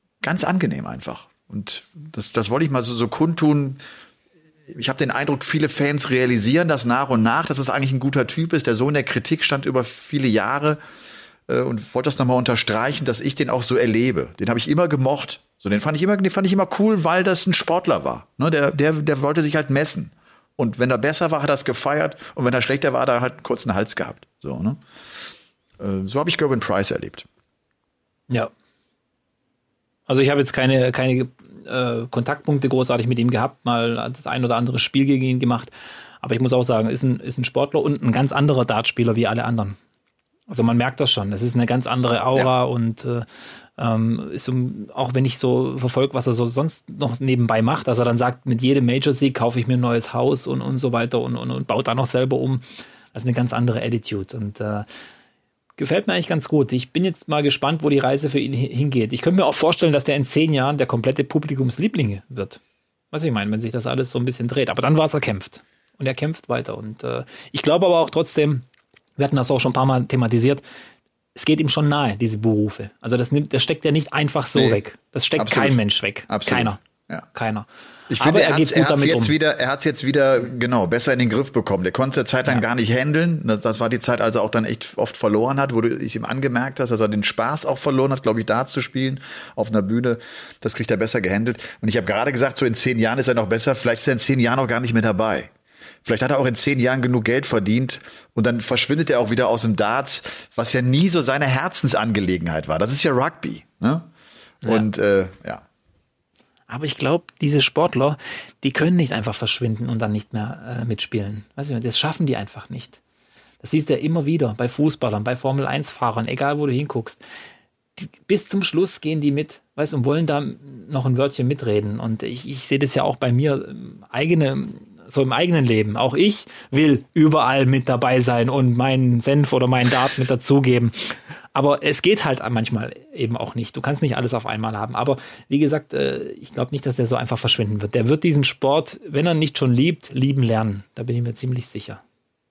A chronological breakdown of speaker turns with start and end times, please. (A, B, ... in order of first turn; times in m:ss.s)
0:00.2-0:03.8 A
0:04.7-0:10.8 A
0:11.5-0:24.8 A
0:25.8-0:27.3 A
0:30.1-0:39.8 B
0:40.5-0:54.9 B
0:55.8-1:02.6 B
1:03.1-1:08.6 B
1:09.2-1:10.6 B
1:11.3-1:16.8 B
1:14.5-1:14.8 A
1:15.4-1:17.2 A
1:17.3-1:17.6 B
1:18.1-1:35.5 A
1:18.2-1:19.3 B
1:36.0-1:44.1 A
1:44.6-1:45.6 A
1:46.7-1:53.0 B
1:53.6-1:57.2 B
1:58.0-2:22.0 B